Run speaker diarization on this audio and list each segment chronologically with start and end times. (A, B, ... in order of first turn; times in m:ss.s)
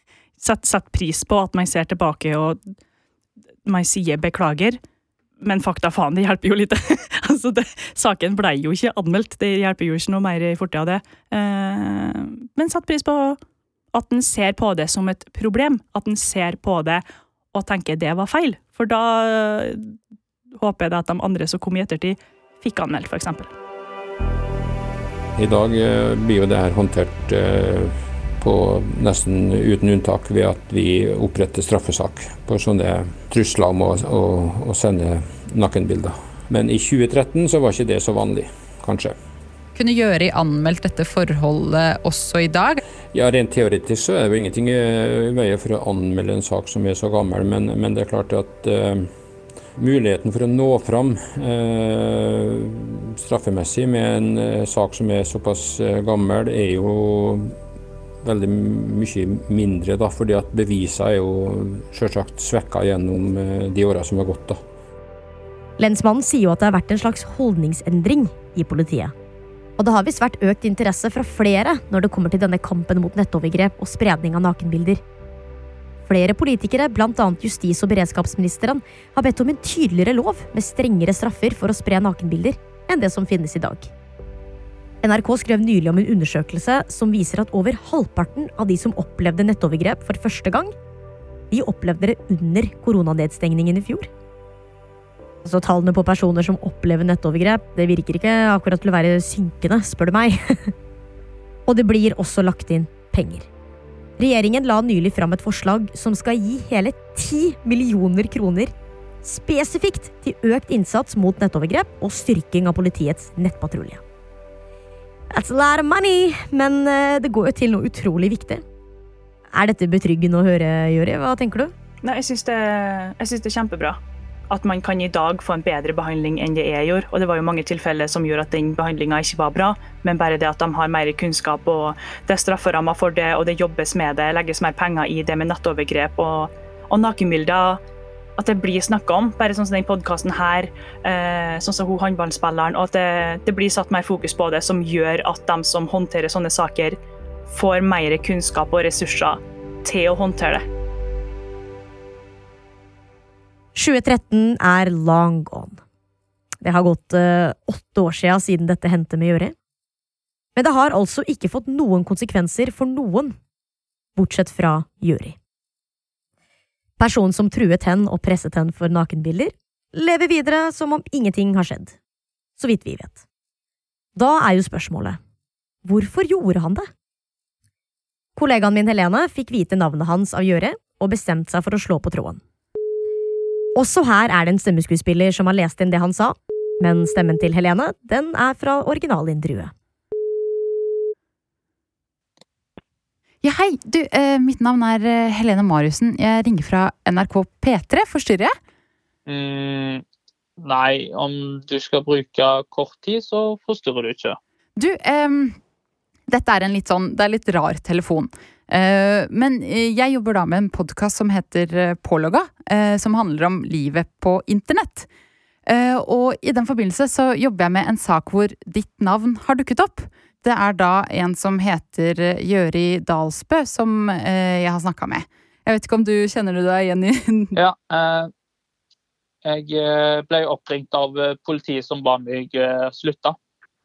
0:00.4-0:02.6 A
0:03.6-0:04.8 A
0:05.4-0:13.4 A
0:13.9-0:19.9 A
0:20.5-0:23.5 A
0:25.4-0:39.1 B
0:39.7-0:42.8 C
0:43.1-0:49.1 B
0:49.8-0:57.5 B
0:58.2-1:04.6 B
1:05.8-1:09.1 D
1:09.8-1:15.0 D
1:16.0-1:23.9 D
1:25.0-1:30.7 D
1:31.5-1:34.1 D
1:35.4-1:40.7 D
1:41.7-1:43.5 D
1:44.2-1:54.0 D
1:55.3-1:58.6 D
1:59.5-2:01.7 D
2:02.0-2:04.0 A
2:04.5-2:17.8 A
2:18.4-2:30.6 A
2:33.7-2:35.8 D
2:36.6-2:39.5 D
2:40.6-2:43.4 D
2:44.2-2:45.4 D
2:47.0-2:52.0 D
2:52.6-2:53.2 D
2:54.1-2:55.2 D
2:55.8-2:56.9 D
2:58.4-3:02.4 D
3:03.7-3:09.7 D
3:13.4-3:18.5 C
3:19.3-3:20.0 E
3:20.6-3:24.4 E
3:24.8-3:25.6 C
3:26.3-3:35.1 C
3:35.6-3:47.5 C
3:47.5-3:48.3 E
3:49.4-3:53.4 E